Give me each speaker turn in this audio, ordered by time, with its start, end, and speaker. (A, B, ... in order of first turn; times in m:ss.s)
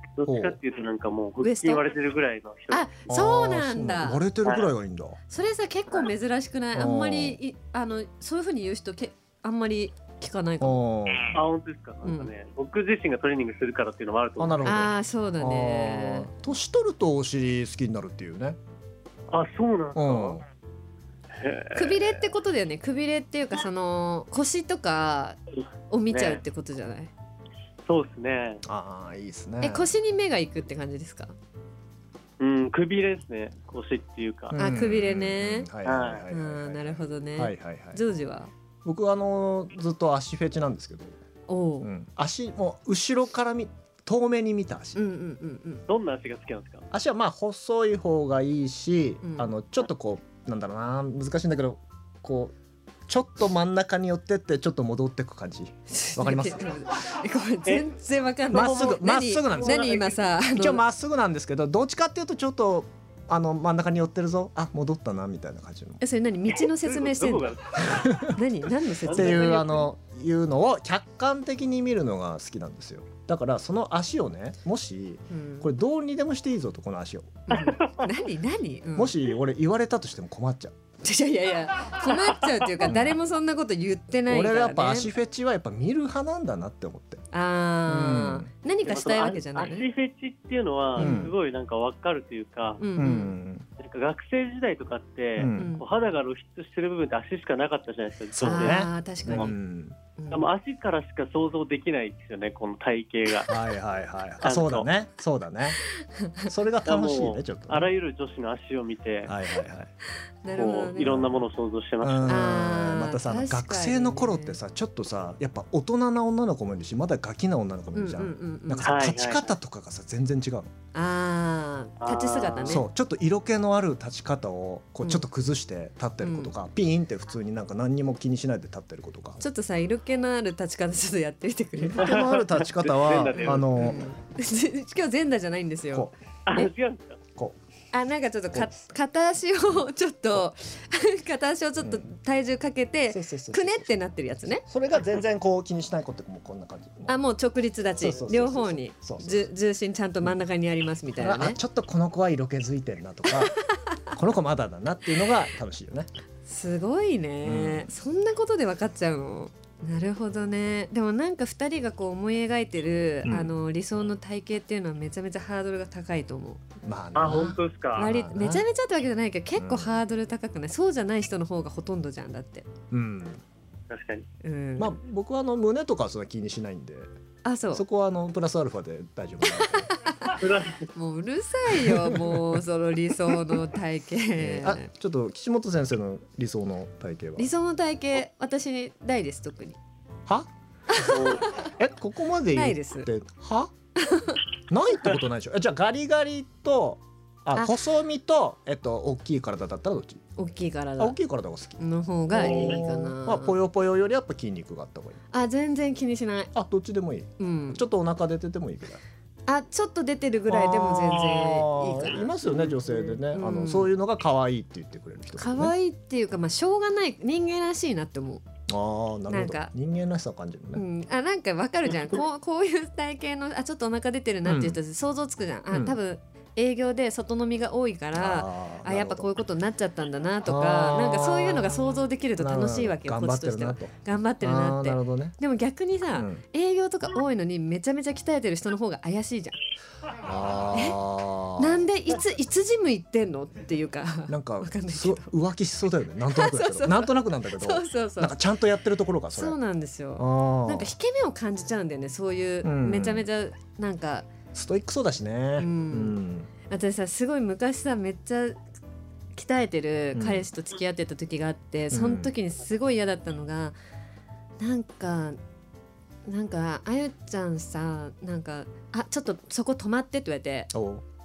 0:00.2-0:02.9 A
0:00.2-0:00.6 B
0:01.4-0:01.8 C
0:02.7-0:04.2 C
0:03.1-0:05.2 B
0:04.4-0:04.7 A
0:05.3-0:10.8 C
0:06.7-0:07.4 B
0:10.6-0:11.4 B
0:11.3-0:14.7 A
0:12.0-0:12.3 C
0:14.4-0:18.6 B
0:14.6-0:16.3 C
0:19.3-0:20.4 A
0:19.9-0:20.4 B
0:21.3-0:22.2 A
0:21.7-0:25.4 C
0:25.9-0:27.1 C
0:26.1-0:26.4 A
0:27.9-0:28.6 A
0:28.6-0:29.9 B
0:29.6-0:31.4 C
0:32.4-0:34.6 A
0:34.5-0:38.0 B
0:34.6-0:35.7 C
0:35.8-0:36.2 A
0:36.3-0:38.5 C
0:38.8-0:41.2 B
0:41.5-0:41.9 C
0:41.8-0:45.0 B
0:45.0-0:45.8 C
0:45.9-0:46.9 A
0:46.9-0:52.5 B
0:49.2-0:49.5 C
0:53.1-0:56.6 B
0:55.9-1:00.8 C
0:58.5-1:00.0 B
0:58.5-1:00.2 A
1:00.5-1:06.0 B
1:06.0-1:07.5 C
1:06.6-1:08.3 A
1:07.8-1:08.4 B
1:08.3-1:09.8 C
1:09.0-1:09.8 A
1:09.1-1:17.4 B
1:15.3-1:15.7 C
1:17.5-1:19.2 C
1:17.5-1:18.1 A
1:18.9-1:20.8 B
1:21.0-1:25.1 C
1:22.9-1:23.2 B
1:24.3-1:27.2 B
1:27.3-1:29.9 C
1:27.9-1:28.5 B
1:28.9-1:32.8 A
1:31.0-1:31.3 C
1:31.0-1:31.4 B
1:32.8-1:33.4 C
1:33.0-1:33.6 B
1:33.8-1:39.5 A
1:35.4-1:35.7 B
1:35.5-1:35.8 C
1:38.4-1:40.0 B
1:38.4-1:39.5 C
1:40.2-1:40.5 C
1:40.3-1:43.6 A
1:43.4-1:45.8 B
1:44.4-1:44.9 A
1:46.1-1:46.5 C
1:46.4-1:47.9 B
1:46.8-1:49.4 A
1:49.2-1:49.9 B
1:50.4-1:51.2 C
1:50.5-1:52.4 A
1:52.0-2:00.7 B
1:52.3-1:54.6 C
1:57.9-1:59.0 C
1:58.8-1:59.5 A
2:00.9-2:02.8 C
2:02.0-2:02.8 A
2:02.6-2:09.4 B
2:06.2-2:06.5 C
2:09.4-2:12.2 C
2:11.8-2:14.1 B
2:12.0-2:13.7 A
2:13.4-2:16.7 C
2:16.4-2:17.2 A
2:17.9-2:24.6 C
2:18.5-2:18.8 B
2:23.1-2:23.9 B
2:24.5-2:27.2 B
2:27.1-2:31.6 C
2:28.0-2:29.5 B
2:31.2-2:33.6 B
2:34.1-2:36.1 B
2:36.4-2:46.6 C
2:37.4-2:37.9 B
2:43.2-2:43.5 B
2:46.8-2:48.6 B
2:47.1-2:48.1 A
2:47.3-2:52.7 C
2:49.6-2:50.0 B
2:52.9-2:53.4 B
2:53.9-2:54.3 A
2:54.4-2:55.0 C
2:54.8-2:57.1 B
2:57.4-2:57.8 C
2:57.7-2:59.9 B
2:59.6-3:00.4 C
3:00.3-3:00.9 A
3:00.9-3:04.9 C
3:01.7-3:02.6 B
3:04.4-3:07.5 B
3:07.4-3:09.8 C
3:10.9-3:11.6 C
3:11.0-3:11.5 A
3:11.6-3:13.7 B
3:12.5-3:13.1 C
3:14.0-3:14.4 C
3:14.7-3:20.2 B
3:20.4-3:21.2 C
3:21.0-3:25.2 B
3:21.8-3:23.6 C
3:22.4-3:22.8 A
3:25.3-3:26.5 C
3:26.5-3:29.0 B
3:27.4-3:27.8 C
3:29.5-3:33.9 C
3:30.5-3:35.7 B
3:35.4-3:38.4 C
3:38.7-3:40.8 B
3:39.3-3:39.7 C
3:40.7-3:59.6 C
3:44.4-3:44.8 B
3:45.7-3:46.0 B
3:48.1-3:49.3 B
3:50.4-3:55.4 B
3:56.1-3:56.4 B
4:00.2-4:01.8 B
4:00.7-4:01.0 C
4:01.6-4:05.3 C
4:04.3-4:09.6 B
4:06.3-4:08.4 C
4:09.3-4:14.3 C
4:10.2-4:10.9 B
4:12.6-4:13.3 B
4:14.5-4:16.5 B
4:15.6-4:16.2 C
4:16.7-4:18.6 C
4:19.4-4:23.8 C
4:20.1-4:20.4 B
4:21.9-4:22.3 B
4:24.6-4:25.4 C
4:26.2-4:30.7 C
4:30.7-4:31.0 B